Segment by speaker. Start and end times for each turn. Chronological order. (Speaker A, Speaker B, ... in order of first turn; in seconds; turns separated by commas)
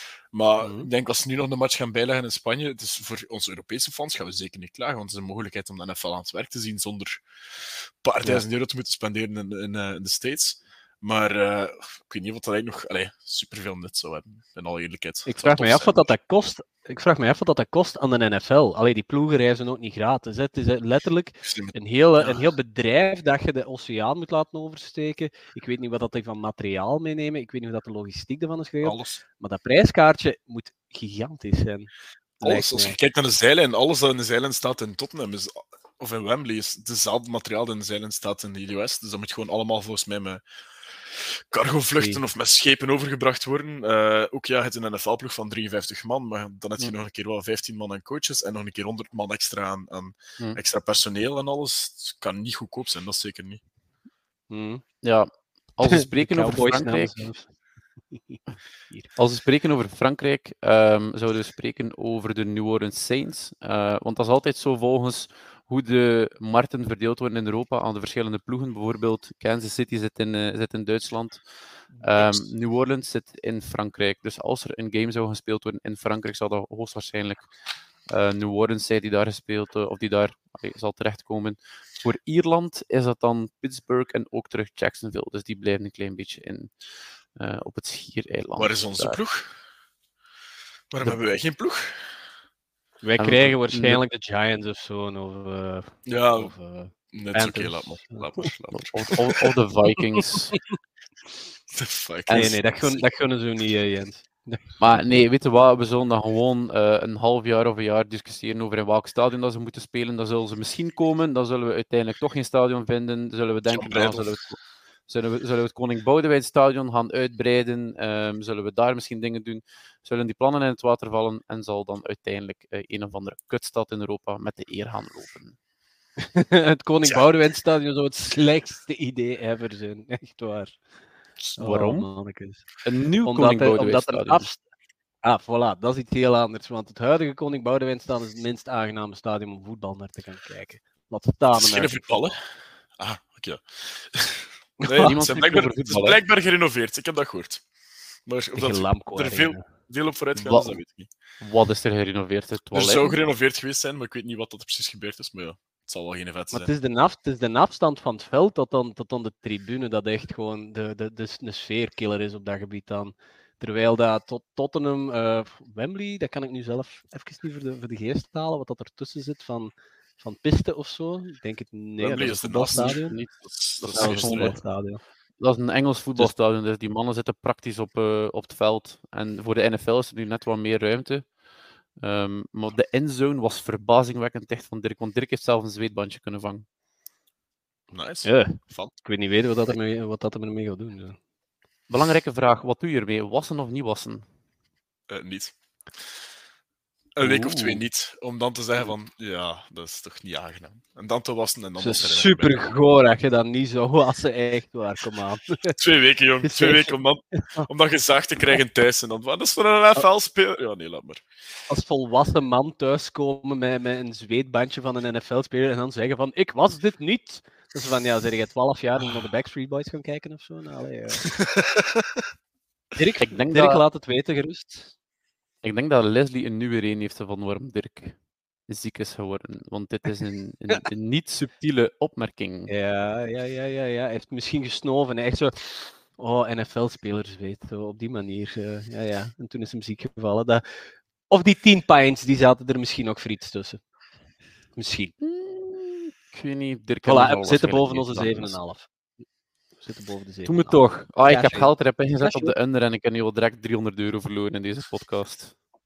Speaker A: 0.3-16.1, Speaker B: 0.6-0.9, Speaker B: 15.3-33.0, Speaker A: 21.4-22.5, Speaker A: 28.8-29.2, Speaker A: 32.4-40.4, Speaker A: 41.1-53.6, Speaker B: 54.5-54.8, Speaker C: 55.0-57.3, Speaker B: 55.9-57.5, Speaker B: 58.1-59.1, Speaker C: 59.1-71.4, Speaker A: 72.0-72.5, Speaker C: 72.0-77.5, Speaker C: 78.1-86.7, Speaker C: 87.3-89.2, Speaker A: 88.6-89.5, Speaker A: 90.9-92.2, Speaker B: 93.0-98.5, Speaker C: 93.2-94.0, Speaker A: 96.1-96.5, Speaker A: 97.1-99.2, Speaker C: 98.8-100.5, Speaker B: 100.0-100.6, Speaker A: 101.7-103.0, Speaker C: 102.3-102.6, Speaker B: 102.3-105.0, Speaker C: 104.8-125.6, Speaker A: 113.7-114.3, Speaker B: 126.2-130.9, Speaker C: 131.5-132.1, Speaker B: 131.6-134.6, Speaker C: 132.8-134.5, Speaker B: 135.2-142.1, Speaker A: 141.5-147.7, Speaker B: 144.8-145.1, Speaker C: 145.0-146.2, Speaker A: 148.2-151.1, Speaker B: 148.5-149.6, Speaker C: 150.4-150.8, Speaker C: 151.4-153.1, Speaker A: 152.7-156.7, Speaker B: 156.5-173.2, Speaker A: 172.0-174.6, Speaker C: 172.8-174.6, Speaker B: 173.9-175.0, Speaker C: 175.4-181.4, Speaker C: 182.0-186.7, Speaker A: 187.9-188.9, Speaker B: 188.2-191.2, Speaker C: 191.9-194.2, Speaker A: 195.1-195.5, Speaker A: 197.2-202.7, Speaker B: 197.2-197.8, Speaker B: 201.8-205.8, Speaker A: 205.7-211.2, Speaker B: 206.4-206.9, Speaker B: 211.7-221.5, Speaker A: 221.6-222.0, Speaker B: 222.9-224.9, Speaker C: 223.2-223.8, Speaker C: 225.6-232.7, Speaker B: 232.7-243.8, Speaker B: 244.7-245.1, Speaker C: 245.2-248.6, Speaker B: 247.0-248.9, Speaker B: 249.8-252.5, Speaker C: 250.4-255.6